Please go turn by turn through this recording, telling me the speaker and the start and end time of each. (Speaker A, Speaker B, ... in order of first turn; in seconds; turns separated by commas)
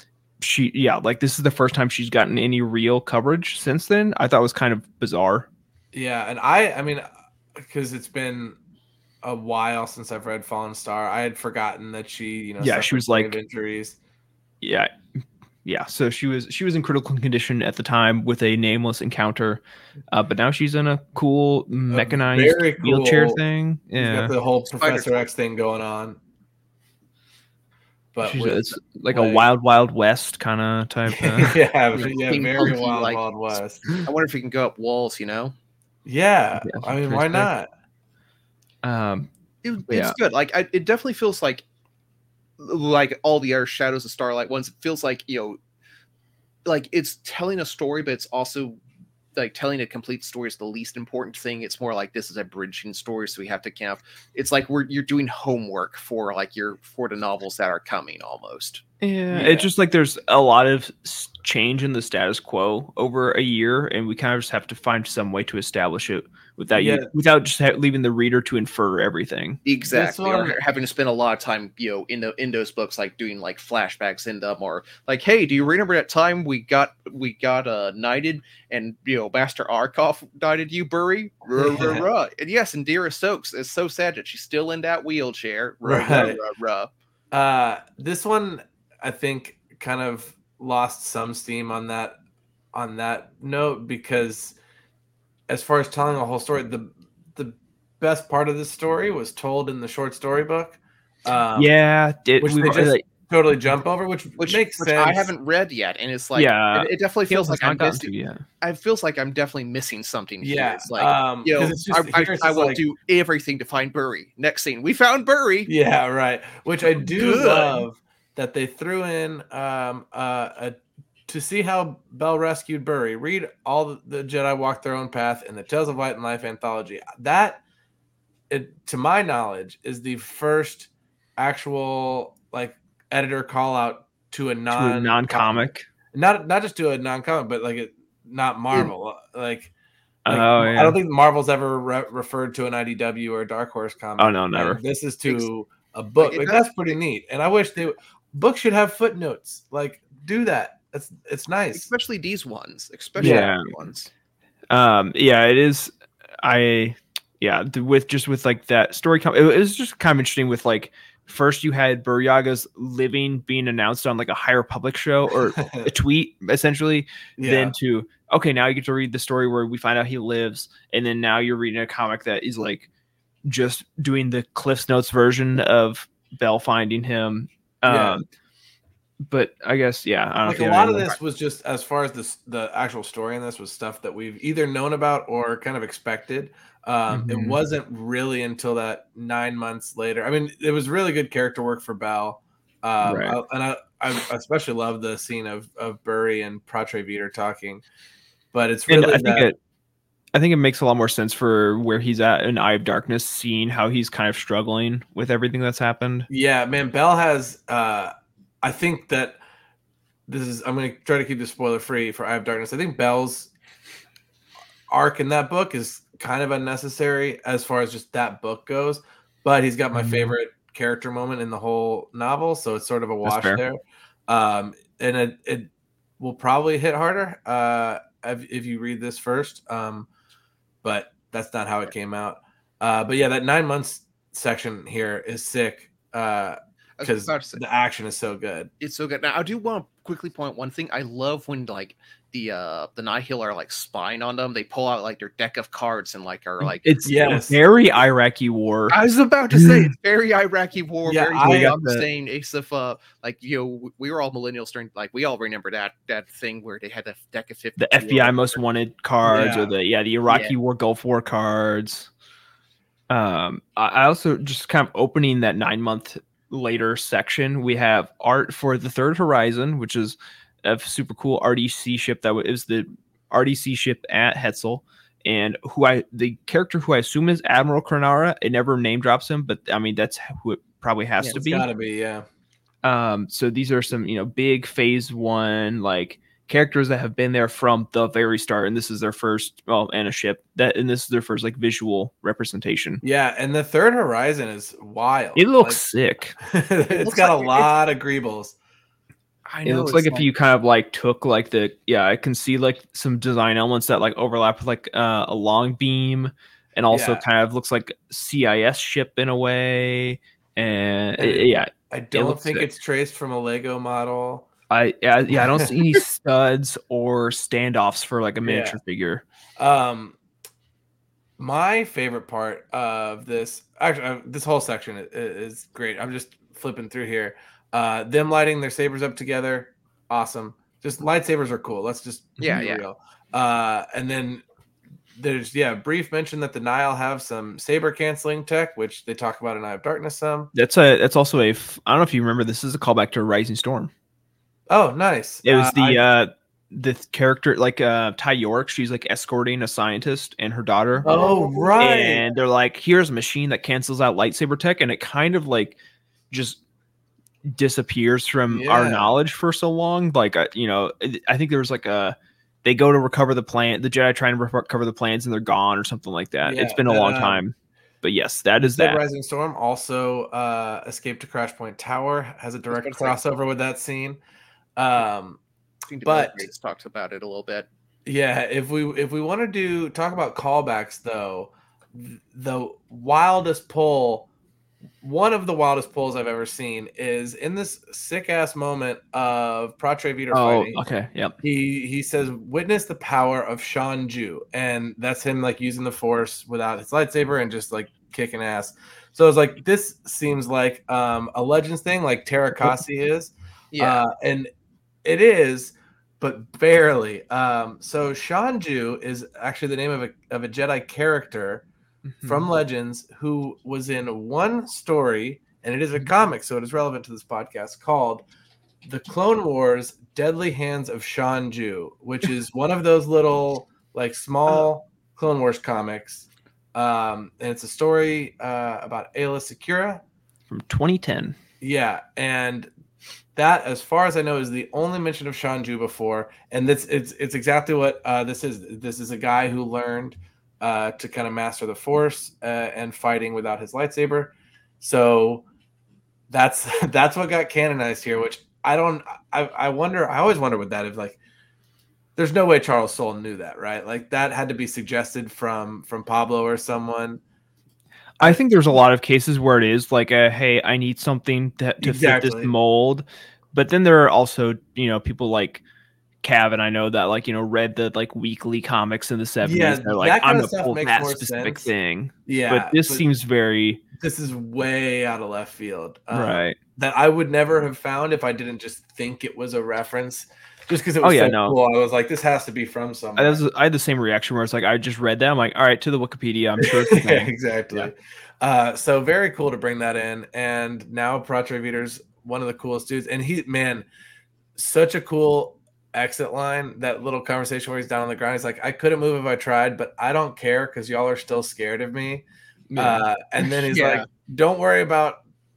Speaker A: 0.4-5.5, Speaker B: 5.9-8.6, Speaker B: 9.2-14.0, Speaker A: 12.6-13.3, Speaker A: 14.6-14.9, Speaker A: 15.7-24.3, Speaker B: 21.9-23.4, Speaker B: 24.0-26.2, Speaker C: 24.6-25.3, Speaker B: 28.1-29.4, Speaker A: 28.2-32.1, Speaker B: 31.1-33.8, Speaker C: 32.0-35.5, Speaker B: 36.0-37.7, Speaker A: 36.6-37.5, Speaker A: 38.8-39.3, Speaker C: 39.6-41.6, Speaker A: 39.9-40.2, Speaker C: 42.6-45.6, Speaker C: 46.6-48.8, Speaker C: 49.4-58.8, Speaker A: 59.0-69.6, Speaker B: 59.3-59.7, Speaker B: 66.8-67.1, Speaker C: 69.7-86.9, Speaker B: 69.9-70.6, Speaker B: 81.6-82.0, Speaker B: 85.8-86.4, Speaker B: 87.3-92.2, Speaker B: 92.7-94.6, Speaker B: 95.5-101.7, Speaker A: 101.6-103.0, Speaker B: 102.4-105.3, Speaker C: 104.4-115.7, Speaker A: 106.3-108.4, Speaker B: 110.4-112.8, Speaker B: 115.7-127.6, Speaker C: 117.0-117.8, Speaker B: 128.5-139.7, Speaker A: 134.7-135.9, Speaker A: 140.3-141.0, Speaker B: 140.3-151.9, Speaker A: 144.2-144.8, Speaker C: 146.2-146.6, Speaker C: 151.7-154.1, Speaker B: 153.2-153.5, Speaker A: 153.2-153.7, Speaker A: 154.7-172.9, Speaker B: 165.6-165.9, Speaker B: 167.4-167.7, Speaker A: 173.5-178.2, Speaker B: 177.9-178.2, Speaker A: 179.3-181.2, Speaker B: 180.4-197.8, Speaker A: 187.1-187.6, Speaker A: 193.0-193.4, Speaker B: 198.5-199.5, Speaker A: 198.9-199.6, Speaker A: 200.3-206.3, Speaker B: 206.3-209.4, Speaker B: 210.3-213.5, Speaker B: 214.9-230.1, Speaker A: 219.9-220.3, Speaker A: 223.2-223.6, Speaker B: 230.8-238.7, Speaker C: 237.0-237.6, Speaker C: 238.8-247.0, Speaker A: 246.8-249.0, Speaker B: 247.1-247.6, Speaker C: 248.9-258.6, Speaker B: 251.1-251.8, Speaker A: 251.4-252.1, Speaker A: 257.8-262.1, Speaker B: 259.2-259.7, Speaker C: 260.3-260.6, Speaker A: 263.1-281.7, Speaker B: 281.3-282.3, Speaker A: 282.8-293.0, Speaker B: 293.0-295.8, Speaker A: 295.4-296.4, Speaker B: 296.5-298.6, Speaker C: 296.9-297.7, Speaker C: 299.5-300.3, Speaker A: 299.6-312.7, Speaker B: 306.9-307.2, Speaker B: 311.2-314.5, Speaker A: 314.7-319.2, Speaker B: 318.4-318.8, Speaker B: 319.6-320.2, Speaker B: 321.4-334.4, Speaker C: 332.4-332.9, Speaker B: 335.2-340.5, Speaker A: 340.5-343.9, Speaker B: 344.7-346.0, Speaker A: 345.4-351.1, Speaker C: 351.0-351.8, Speaker B: 351.0-352.2, Speaker A: 351.8-355.8, Speaker A: 356.3-356.6, Speaker A: 357.5-369.0, Speaker B: 358.5-359.2, Speaker B: 366.4-367.4, Speaker B: 368.6-374.2, Speaker C: 372.7-373.2, Speaker B: 374.8-375.4, Speaker C: 375.9-377.7, Speaker B: 376.0-376.5, Speaker B: 378.1-384.3, Speaker B: 385.0-390.8, Speaker A: 390.3-391.3, Speaker B: 391.4-404.5, Speaker C: 403.7-404.0, Speaker B: 405.0-411.6, Speaker A: 412.2-412.5, Speaker B: 412.2-418.2, Speaker B: 418.9-430.0, Speaker A: 430.5-431.4, Speaker B: 431.6-432.7, Speaker B: 433.4-445.4, Speaker B: 446.3-451.2, Speaker B: 452.2-457.2, Speaker A: 458.2-465.6, Speaker B: 461.8-462.5, Speaker A: 466.2-473.8, Speaker B: 469.4-471.7, Speaker B: 472.3-473.0, Speaker B: 474.0-483.4, Speaker A: 476.1-476.6, Speaker A: 481.0-481.6, Speaker A: 483.2-487.3, Speaker B: 486.6-493.9, Speaker B: 494.6-502.2, Speaker A: 502.7-503.1, Speaker B: 502.8-505.2, Speaker C: 503.4-504.1